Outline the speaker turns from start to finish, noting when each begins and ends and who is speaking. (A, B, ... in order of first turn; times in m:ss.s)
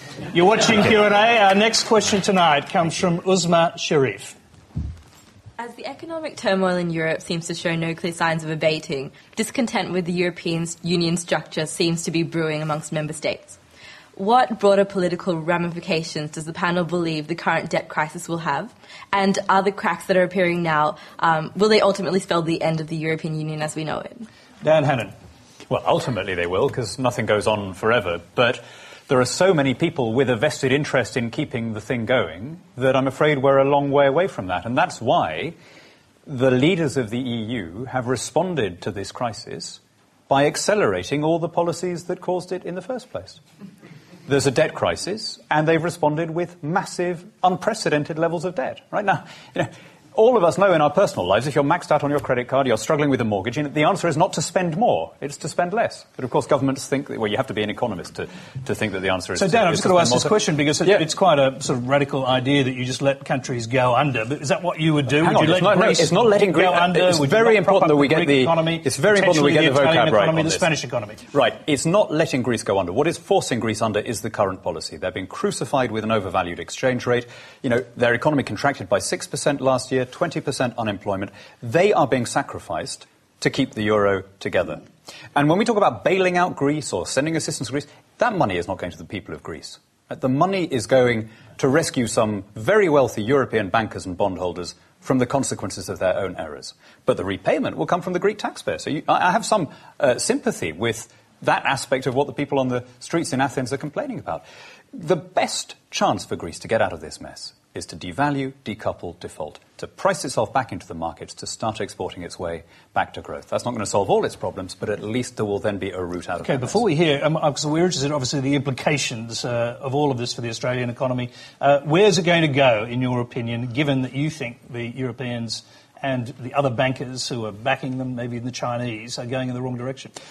0:00.3-0:04.4 A
0:05.6-0:13.6 B
0:14.2-0:24.2 B
0:24.6-0:25.1 A
0:25.7-0:35.5 C
0:36.2-0:43.4 C
0:44.3-1:01.0 C
0:59.3-1:11.2 A
1:05.1-1:10.7 C
1:11.3-1:44.4 C
1:44.9-1:56.8 C
1:56.4-2:10.1 A